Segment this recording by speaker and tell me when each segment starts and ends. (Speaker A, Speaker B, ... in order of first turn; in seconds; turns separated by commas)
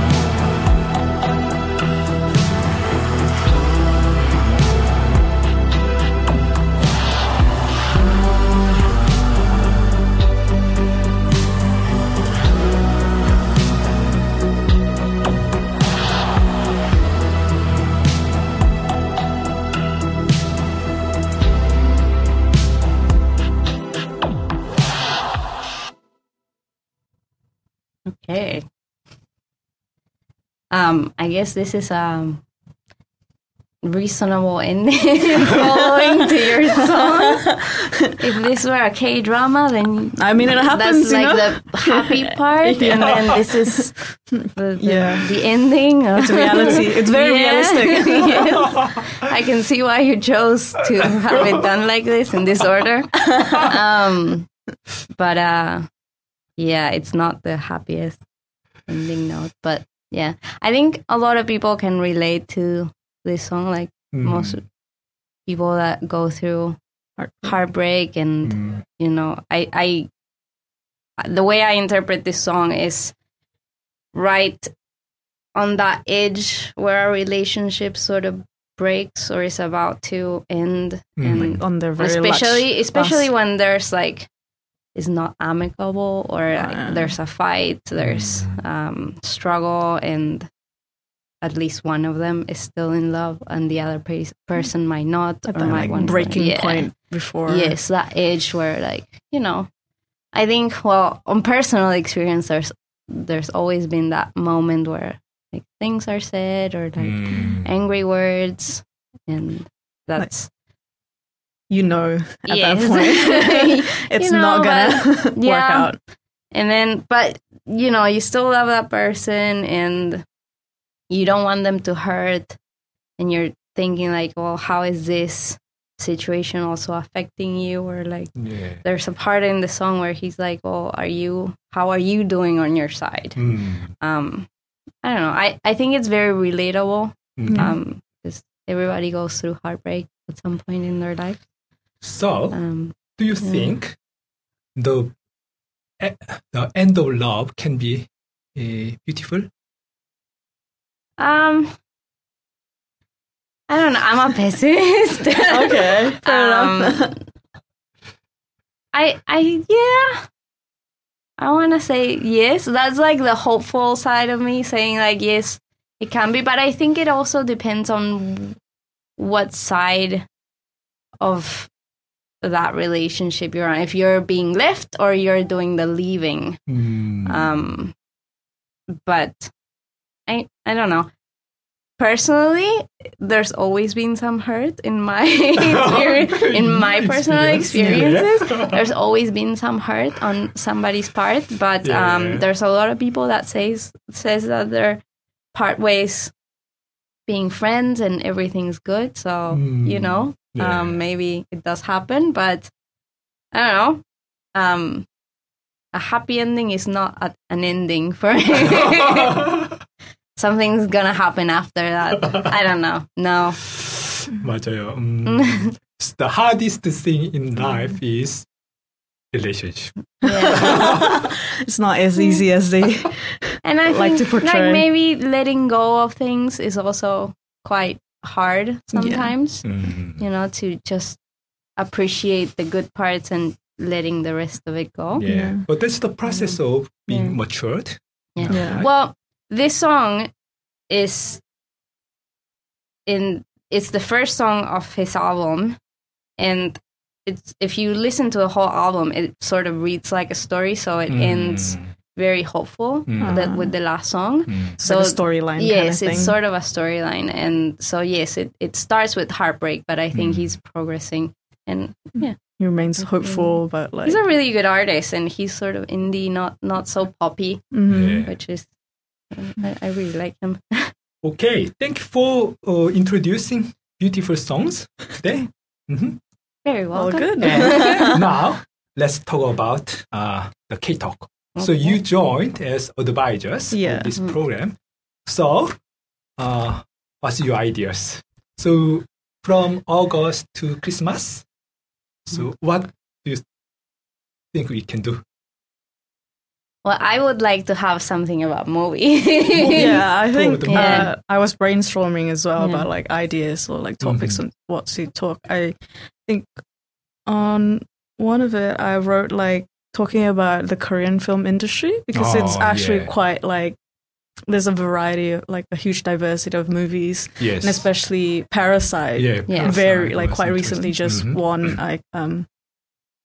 Speaker A: 28.1-28.6, Speaker A: 30.7-32.4, Speaker A: 33.8-54.5, Speaker B: 36.9-38.0, Speaker B: 40.2-43.9, Speaker B: 44.8-45.3, Speaker B: 46.2-48.8, Speaker A: 55.1-55.9, Speaker A: 56.6-58.2, Speaker A: 58.9-64.6, Speaker C: 64.1-64.6, Speaker A: 65.5-66.8, Speaker B: 67.2-67.5, Speaker A: 67.4-70.1, Speaker C: 68.4-68.8, Speaker A: 71.2-73.1, Speaker A: 74.1-74.7, Speaker A: 75.5-84.3, Speaker C: 81.2-81.6, Speaker B: 81.3-83.3, Speaker A: 84.9-90.5, Speaker B: 86.5-87.2, Speaker C: 88.0-88.6, Speaker A: 91.4-99.7, Speaker B: 95.5-97.7, Speaker C: 95.7-96.0, Speaker A: 100.3-110.5, Speaker C: 107.0-107.7, Speaker B: 111.7-116.0, Speaker A: 112.5-116.0, Speaker A: 116.5-120.2, Speaker A: 121.1-122.6, Speaker A: 123.2-134.5, Speaker C: 128.3-128.8, Speaker C: 133.4-133.9, Speaker A: 135.0-141.4, Speaker C: 137.4-137.8, Speaker C: 142.0-144.0, Speaker A: 142.5-143.7, Speaker C: 144.8-145.1, Speaker C: 146.0-149.5, Speaker A: 151.2-151.7, Speaker A: 153.7-157.1, Speaker B: 155.5-157.2, Speaker A: 158.9-160.3, Speaker A: 161.4-168.6, Speaker A: 169.2-170.3, Speaker A: 171.2-171.7, Speaker A: 172.4-176.7, Speaker C: 176.7-177.5, Speaker A: 177.2-177.9, Speaker A: 179.0-179.5, Speaker A: 180.3-181.1, Speaker A: 182.0-195.0, Speaker C: 185.6-188.8, Speaker C: 191.8-192.4, Speaker A: 195.5-196.3, Speaker A: 197.3-202.7, Speaker C: 199.5-201.0, Speaker A: 203.5-204.0, Speaker A: 204.5-205.1, Speaker A: 205.9-209.5, Speaker C: 208.6-209.8, Speaker A: 210.3-213.7, Speaker C: 213.8-218.5, Speaker A: 215.3-215.7, Speaker C: 219.3-219.9, Speaker A: 220.2-221.1, Speaker B: 220.2-224.8, Speaker C: 220.5-221.1, Speaker A: 223.6-231.2, Speaker B: 228.9-229.3, Speaker C: 229.6-230.2, Speaker A: 231.8-235.2, Speaker C: 235.1-238.9, Speaker B: 235.2-235.7, Speaker A: 237.1-237.4, Speaker A: 238.3-240.3, Speaker B: 238.5-238.8, Speaker A: 240.9-241.4, Speaker A: 243.1-245.8, Speaker A: 246.4-268.7, Speaker C: 251.1-251.9, Speaker C: 253.1-253.4, Speaker B: 253.2-253.7, Speaker C: 254.5-254.8, Speaker B: 254.8-256.3, Speaker C: 260.1-260.5, Speaker B: 262.2-264.2, Speaker B: 267.7-268.2, Speaker C: 267.9-268.3, Speaker A: 269.3-270.9, Speaker C: 271.2-276.2, Speaker A: 276.6-278.2, Speaker B: 276.9-278.2, Speaker C: 277.4-285.8, Speaker A: 281.6-282.0, Speaker B: 283.7-284.1, Speaker C: 286.4-291.4, Speaker C: 292.2-293.4, Speaker C: 294.5-295.2, Speaker A: 296.8-300.1, Speaker C: 299.5-301.1, Speaker B: 299.8-306.5, Speaker A: 300.7-301.1, Speaker A: 302.6-302.9, Speaker C: 304.0-304.4, Speaker B: 307.2-313.8, Speaker C: 312.1-313.1, Speaker B: 314.5-322.5, Speaker C: 317.4-317.8, Speaker C: 319.1-321.8, Speaker A: 319.5-319.7